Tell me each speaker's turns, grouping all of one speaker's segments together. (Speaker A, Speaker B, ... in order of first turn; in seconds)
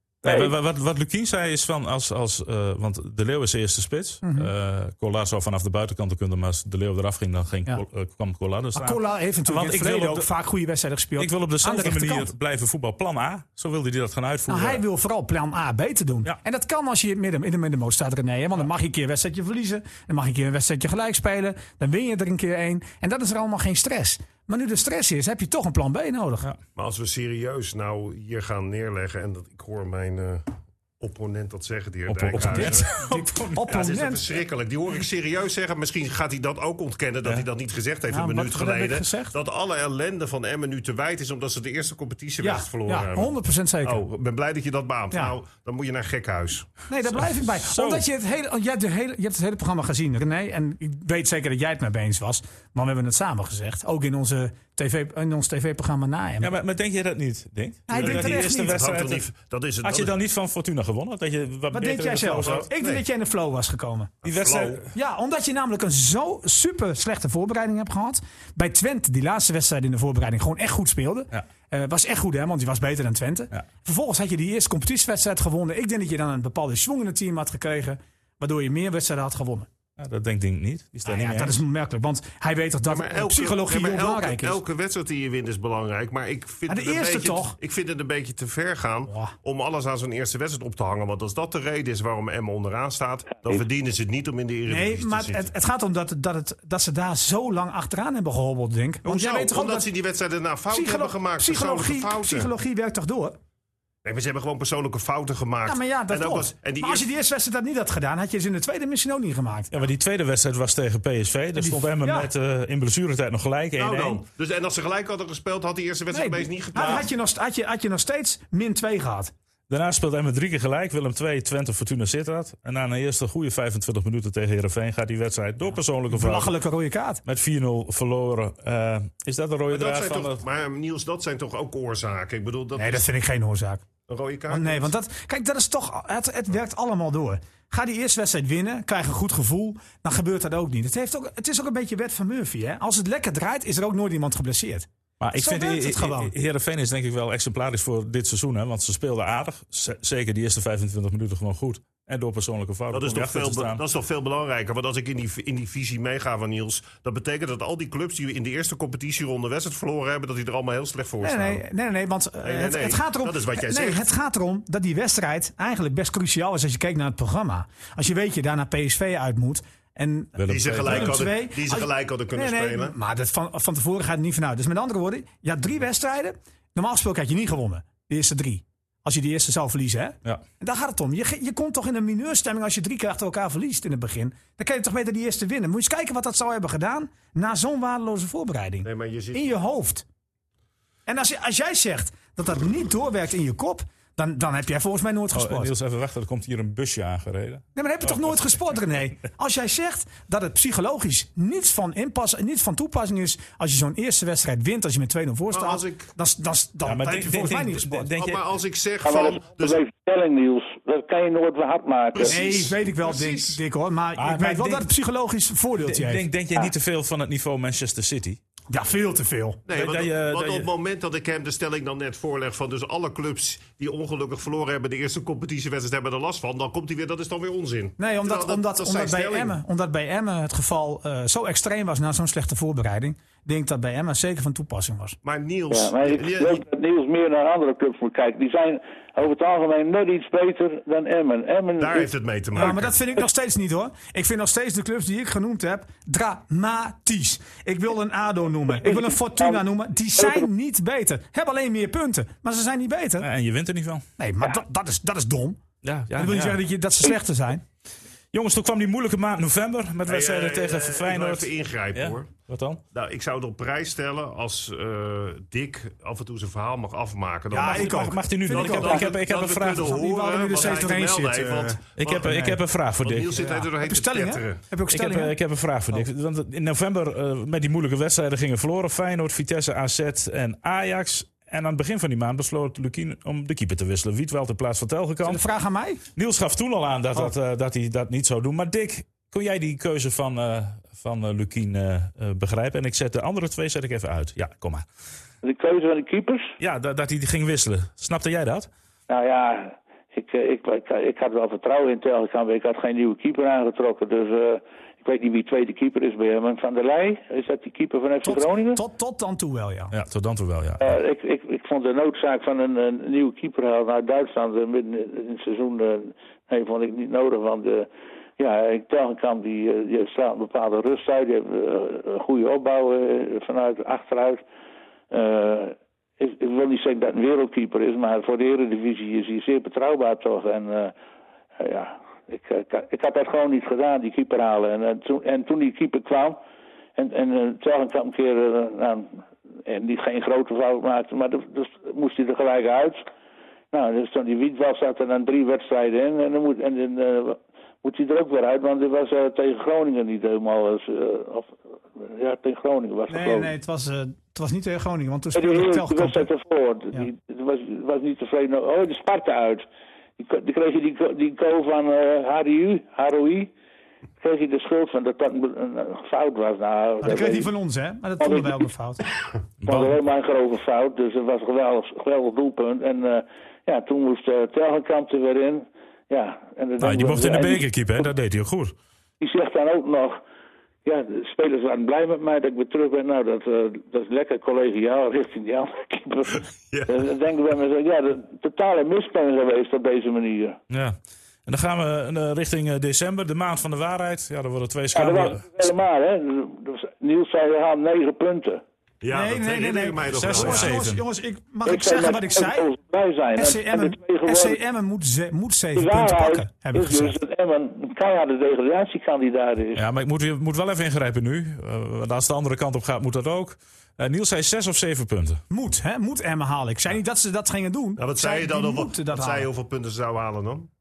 Speaker A: 0.2-10.3, 11.2-14.8, 32.1-33.6, 47.1-48.0, 56.4-59.2, 59.8-62.7, 64.2-64.9, 80.0-81.6, 109.7-114.2, 119.7-126.5, 127.2-130.4, 145.2-153.8, 170.4-171.3, 195.3-199.0, 206.8-208.4, 214.2-214.9, 215.8-218.4, 219.7-220.7, 253.2-254.0, 255.8-256.6, 258.3-262.8, 267.6-270.0, 272.0-273.5, 274.9-285.4, 286.1-294.9, 296.6-298.7, 309.9-310.8, 369.6-370.0, 376.8-378.7, 390.7-395.4, 400.1-401.0, 409.8-415.4
Speaker B: 4.2-4.5, 8.7-12.3, 14.5-26.5, 32.4-34.4, 38.1-39.3, 42.4-44.0, 46.9-56.5, 57.9-58.8, 61.7-64.1, 64.9-79.7, 81.0-84.6, 86.7-87.6, 89.1-89.3, 94.7-99.9, 100.7-103.4, 105.6-109.9, 111.5-112.3, 116.1-119.3, 126.1-127.2, 132.8-133.8, 134.5-146.3, 161.2-190.0, 191.1-195.7, 197.7-208.1, 212.2-216.2, 218.7-219.6, 228.0-235.2, 242.5-253.3, 254.2-255.6, 256.1-257.6, 267.5-269.1, 269.7-272.6, 273.3-275.3, 285.2-286.0, 308.2-309.9, 353.1-356.3, 367.0-369.0, 399.1-402.7, 403.4-407.2, 415.5-419.5
Speaker C: 26.8-30.5, 31.0-32.9, 33.7-43.3, 43.8-46.8, 57.9-60.1, 62.5-63.0, 64.2-64.8, 82.9-95.5, 99.0-102.5, 104.0-107.0, 113.8-117.1, 129.7-133.0, 134.1-134.9, 152.9-161.6, 162.4-164.0, 170.5-172.9, 188.8-189.6, 205.5-206.1, 208.2-209.8, 212.1-213.6, 219.7-229.6, 235.2-236.6, 241.8-242.9, 260.1-262.3, 262.9-272.4, 273.0-274.6, 399.0-400.7, 418.0-420.7
Speaker D: 209.0-212.4, 235.7-242.1, 248.8-249.6, 250.2-250.4, 295.4-296.5, 299.1-308.8, 310.8-324.4, 325.1-330.9, 331.6-336.4, 337.0-343.0, 343.7-353.5, 355.3-359.6, 360.2-363.5, 364.2-367.5, 368.2-368.6, 369.6-377.7, 379.2-380.2, 380.8-390.6, 394.9-398.6, 401.6-404.6, 405.7-409.8